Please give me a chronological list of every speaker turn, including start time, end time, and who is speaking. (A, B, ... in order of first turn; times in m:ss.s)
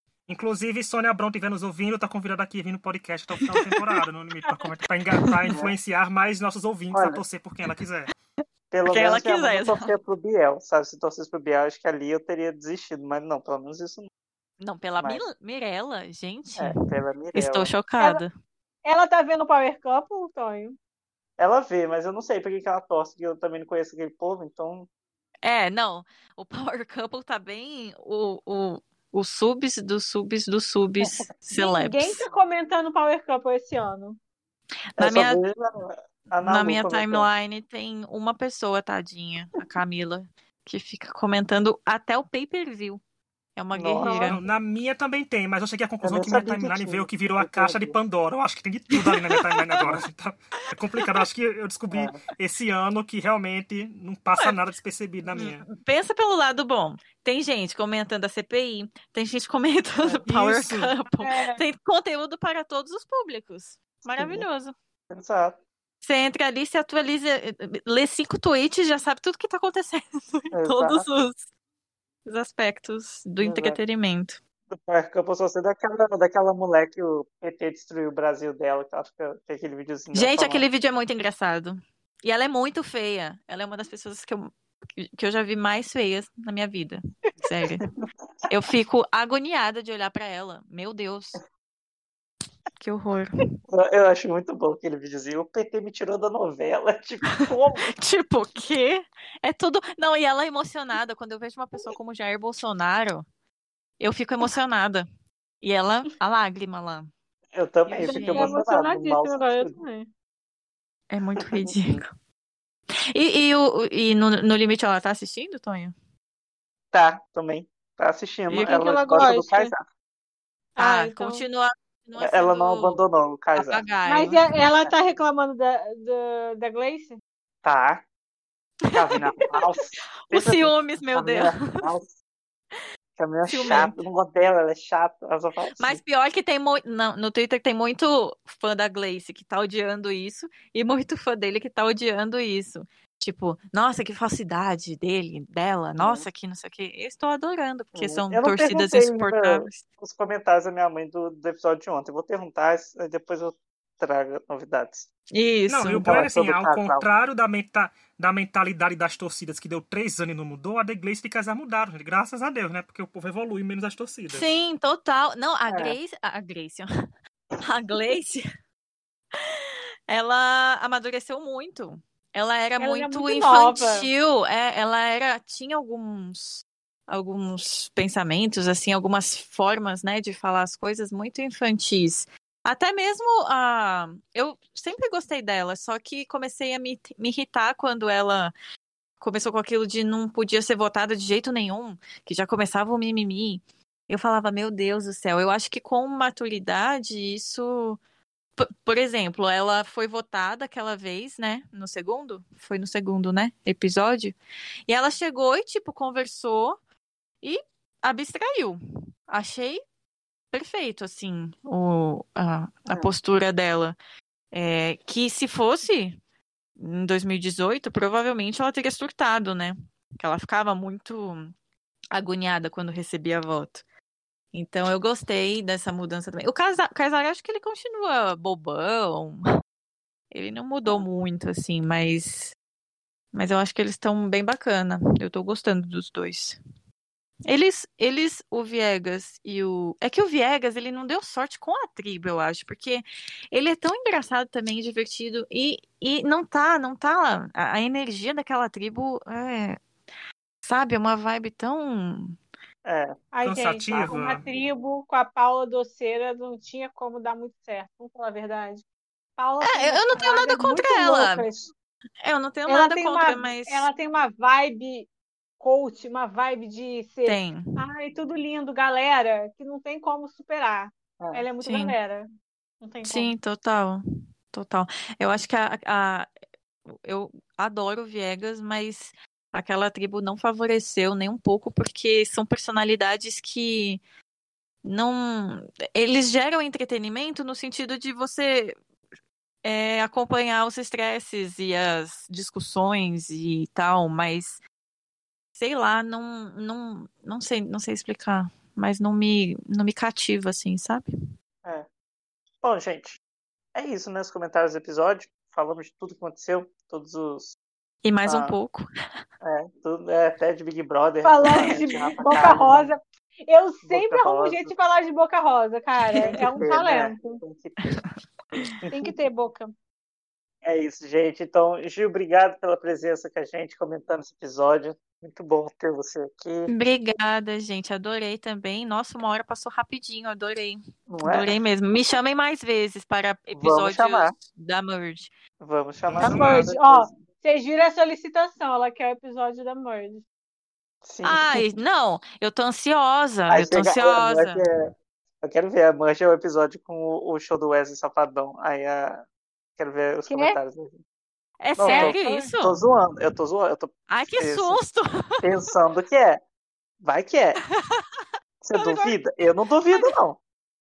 0:00.3-0:08.1 A
0:03.4-0:03.7 B
0:06.9-0:07.2 C
0:08.7-0:14.1 C
0:08.9-0:09.9 B
0:14.6-0:16.8 B
0:16.6-0:17.7 C
0:17.4-0:18.3 B
0:18.8-0:20.8 D
0:21.4-0:24.9 C
0:25.4-0:32.2 B
0:31.0-0:31.3 C
0:31.6-0:34.2 D
0:35.0-0:35.4 B
0:35.0-0:37.3 C
0:36.4-0:43.0 B
0:43.6-0:44.4 B
0:43.7-0:44.4 C
0:44.3-0:55.6 A
0:46.0-0:48.0 C
0:48.9-0:49.9 B
0:51.9-0:52.2 C
0:55.4-1:04.7 B
1:00.2-1:00.9 A
1:01.2-1:01.6 D
1:04.2-1:04.5 C
1:05.1-1:05.6 C
1:06.0-1:11.4 B
1:10.5-1:11.1 C
1:12.3-1:14.4 B
1:13.4-1:13.8 C
1:14.7-1:20.6 C
1:20.1-1:27.9 B
1:28.5-1:31.4 B
1:32.8-1:33.5 B
1:33.7-1:37.9 C
1:37.4-1:43.2 B
1:44.0-1:45.1 B
1:45.6-1:47.1 B
1:47.6-1:49.8 C
1:47.9-1:48.6 B
1:48.0-1:50.1 D
1:51.1-1:52.1 B
1:51.4-1:52.0 C
1:53.1-1:55.9 B
1:56.9-1:59.8 C
1:58.6-1:59.7 D
2:00.8-2:01.4 D
2:00.8-2:03.0 B
2:02.2-2:03.8 C
2:03.6-2:04.4 B
2:04.0-2:07.2 D
2:07.6-2:08.0 C
2:08.9-2:09.6 B
2:08.9-2:12.1 C
2:10.3-2:11.9 B
2:13.2-2:16.0 C
2:13.5-2:14.0 B
2:15.8-2:29.8 B
2:26.0-2:26.3 C
2:28.0-2:35.1 C
2:35.3-2:36.1 B
2:35.7-2:44.5 A
2:35.9-2:37.0 C
2:44.3-2:46.9 B
2:45.7-2:46.0 C
2:47.6-2:48.4 B
2:49.4-3:08.5 B
2:52.8-2:54.1 D
3:09.2-3:18.0 B
3:18.6-3:24.4 B
3:24.9-3:26.8 B
3:27.4-3:29.8 B
3:30.5-3:34.0 B
3:34.5-3:36.2 B
3:36.8-3:41.5 B
3:42.1-3:43.8 B
3:44.5-3:49.4 B
3:50.3-3:52.6 B
3:53.3-3:56.6 B
3:57.5-4:09.8 B
4:10.6-4:12.4 B
4:12.8-4:13.2 C
4:13.3-4:18.8 D
4:13.4-4:14.4 A
4:19.4-4:21.7 D
4:19.6-4:21.5 B
4:22.2-4:23.9 B
4:22.7-4:25.1 D
4:25.6-4:32.3 D
4:27.2-4:27.8 B
4:31.2-4:31.5 C
4:31.6-4:32.0 B
4:32.8-4:33.3 D
4:33.0-4:36.3 B
4:36.9-4:44.0 B
4:44.8-4:48.8 B
4:49.6-4:54.6 B
4:55.6-5:01.1 B
5:02.6-5:03.2 C
5:03.8-5:07.6 C
5:08.0-5:08.9 B
5:08.3-5:08.6 C
5:09.4-5:13.0 C
5:11.2-5:17.4 D
5:13.8-5:14.7 C
5:16.1-5:18.0 C
5:17.8-5:18.7 B
5:18.8-5:19.1 C
5:18.9-5:19.7 D
5:20.6-5:26.7 C
5:26.7-5:35.3 B
5:31.1-5:31.6 C
5:33.5-5:34.3 C
5:35.6-5:37.1 C
5:36.1-5:36.7 A
5:36.2-5:40.2 D
5:41.0-5:41.6 C
5:41.2-5:44.6 B
5:43.5-5:44.9 C
5:45.4-5:49.2 C
5:49.8-5:51.0 C
5:50.3-5:50.6 D
5:51.6-5:52.8 B
5:51.8-5:54.8 C
5:51.8-5:52.5 D
5:54.1-5:55.5 B
5:55.4-5:56.4 C
5:57.0-5:57.6 C
5:57.8-5:58.3 B
5:58.6-6:00.4 C
5:58.8-5:59.1 D